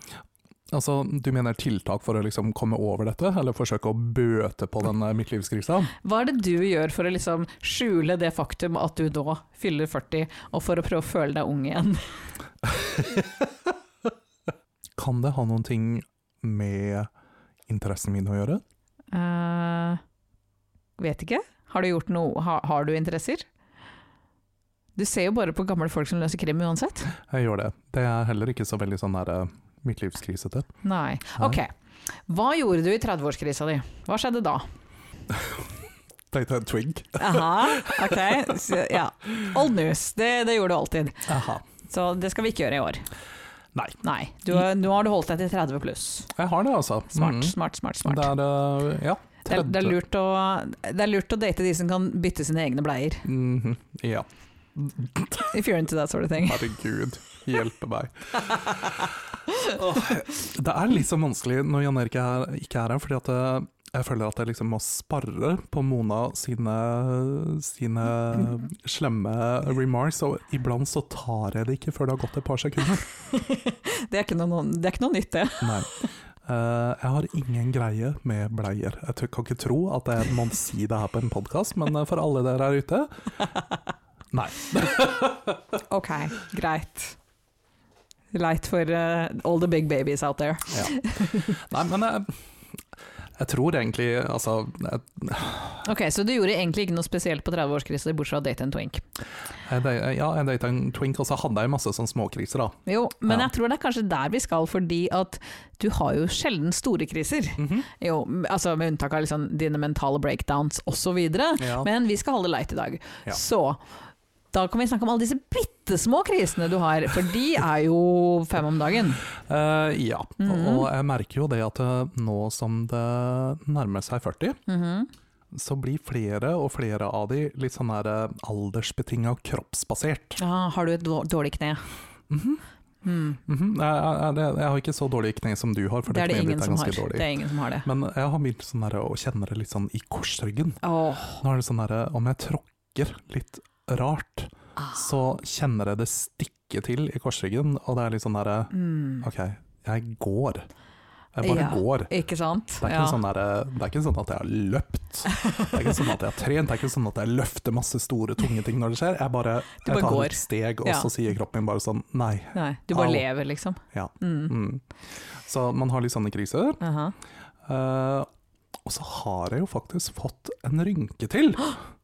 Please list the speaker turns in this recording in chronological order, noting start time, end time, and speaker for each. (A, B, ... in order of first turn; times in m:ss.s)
0:00.7-0:05.9 A
0:06.0-0:12.0 B
0:12.7-0:13.4 A
0:15.0-0:17.1 A
0:17.7-0:18.6 A
0:19.1-0:20.0 B
0:21.0-0:23.5 B
0:25.0-0:27.1 B
0:27.2-0:30.7 A
0:30.8-0:31.7 B
0:32.3-0:34.7 B
0:35.3-0:35.7 A
0:36.3-0:38.6 A
0:37.2-0:41.3 B
0:41.3-0:41.6 A
0:41.8-0:43.1 B
0:44.0-0:46.3 B
0:46.4-0:50.0 A
0:47.1-0:48.3 B
0:49.5-0:53.3 B
0:53.2-0:55.5 A
0:55.4-0:56.7 B
0:56.4-1:13.1 A
1:13.3-1:15.9 B
1:15.6-1:15.9 A
1:16.4-1:23.1 A
1:24.3-1:25.6 A
1:25.9-1:27.2 B
1:28.3-1:31.6 B
1:30.7-1:32.4 A
1:33.4-1:35.8 A
1:35.8-1:39.0 B
1:39.7-1:43.5 A
1:42.9-1:53.8 B
1:47.6-1:47.9 A
1:51.6-1:51.9 A
1:54.5-1:59.2 B
1:59.4-2:04.6 A
2:00.4-2:00.9 B
2:04.7-2:05.1 B
2:05.5-2:10.4 A
2:10.4-2:11.8 B
2:12.3-2:12.6 A
2:13.0-2:13.4 B
2:13.5-2:20.8 A
2:16.1-2:17.9 B
2:20.8-2:21.4 B
2:21.3-2:30.7 A
2:24.8-2:25.0 B
2:28.7-2:29.3 B
2:31.4-2:32.1 A
2:31.4-2:33.2 B
2:32.8-2:43.3 A
2:35.3-2:35.8 B
2:39.8-2:41.1 B
2:42.5-2:44.5 B
2:43.9-2:44.8 A
2:45.4-2:46.8 A
2:46.8-2:47.1 B
2:47.7-2:48.3 A
2:48.8-2:51.8 A